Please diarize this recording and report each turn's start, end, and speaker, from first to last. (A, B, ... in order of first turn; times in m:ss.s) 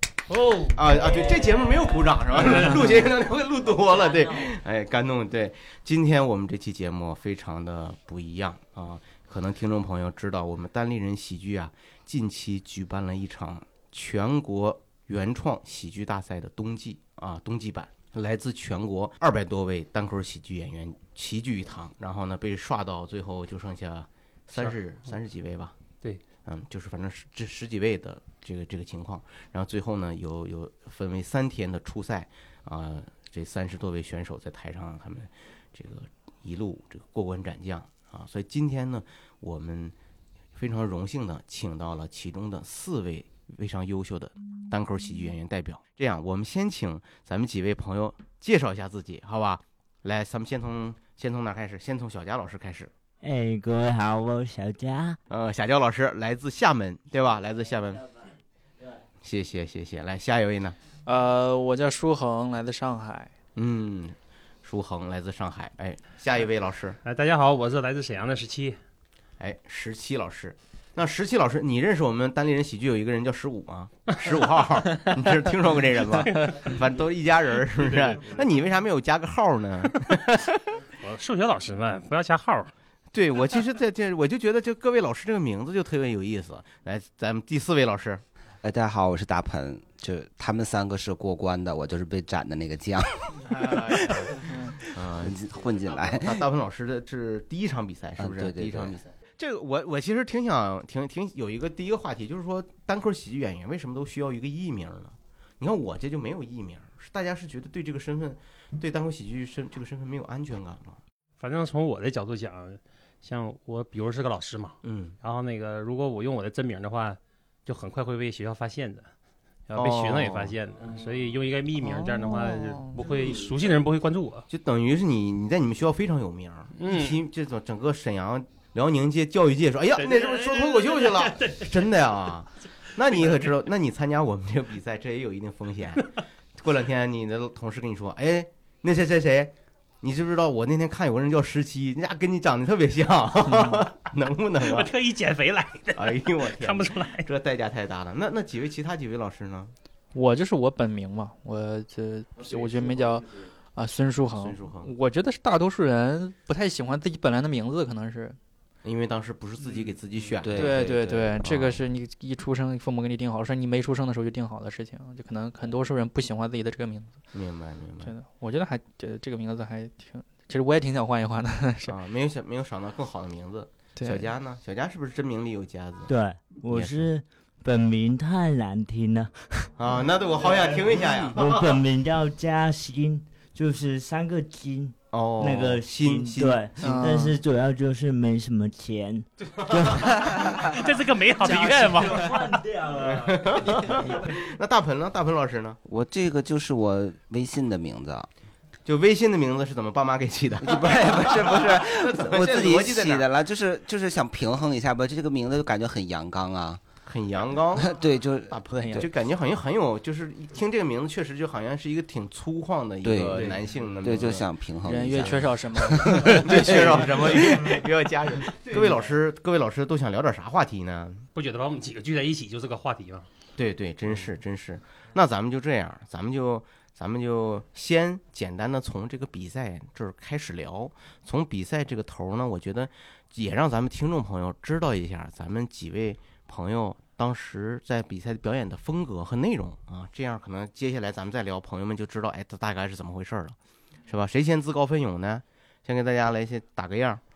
0:00.3-0:00.9 A
0:00.7-0:25.7 B
0:02.4-0:02.8 A
0:26.4-0:39.9 B
0:40.6-0:52.9 B
0:53.2-0:55.2 C
0:55.3-0:58.2 B
0:59.2-1:00.8 B
1:01.0-1:03.3 D
1:03.6-1:07.0 B
1:07.0-1:08.8 A
1:09.4-1:20.6 B
1:16.2-1:16.6 A
1:21.0-1:22.7 A
1:23.1-1:28.2 B
1:28.6-1:36.4 E
1:33.4-1:51.0 B
1:34.4-1:34.8 D
1:38.2-1:39.0 E
1:51.4-1:59.1 A
1:54.8-1:55.1 B
1:59.7-2:04.5 A
1:59.7-2:00.5 B
2:01.9-2:03.0 D
2:04.5-2:24.9 B
2:06.8-2:07.2 A
2:10.0-2:11.8 A
2:23.5-2:23.8 D
2:24.6-2:27.3 A
2:25.9-2:29.7 B
2:30.1-2:38.4 D
2:34.4-2:34.9 B
2:38.8-2:40.8 B
2:40.4-2:41.6 E
2:40.6-2:47.2 D
2:41.4-2:41.8 B
2:47.3-2:48.1 B
2:48.0-2:52.0 D
2:51.9-2:56.1 B
2:54.0-2:54.3 D
2:56.1-2:59.7 C
2:56.7-2:57.1 B
2:59.8-3:01.8 B
3:01.3-3:10.5 C
3:05.1-3:06.7 B
3:06.8-3:07.4 D
3:09.6-3:10.2 B
3:10.2-3:10.6 D
3:10.6-3:12.3 A
3:11.4-3:12.4 D
3:11.5-3:14.1 C
3:13.0-3:15.8 B
3:13.8-3:14.2 D
3:15.8-3:18.3 E
3:18.8-3:23.3 B
3:20.6-3:26.8 E
3:27.0-3:34.5 B
3:27.7-3:29.1 E
3:28.8-3:29.0 D
3:33.0-3:37.8 E
3:33.4-3:34.2 A
3:34.8-3:37.0 D
3:35.2-3:35.4 B
3:36.1-3:41.2 B
3:41.3-3:43.3 A
3:43.6-4:03.6 B
4:04.1-4:07.2 B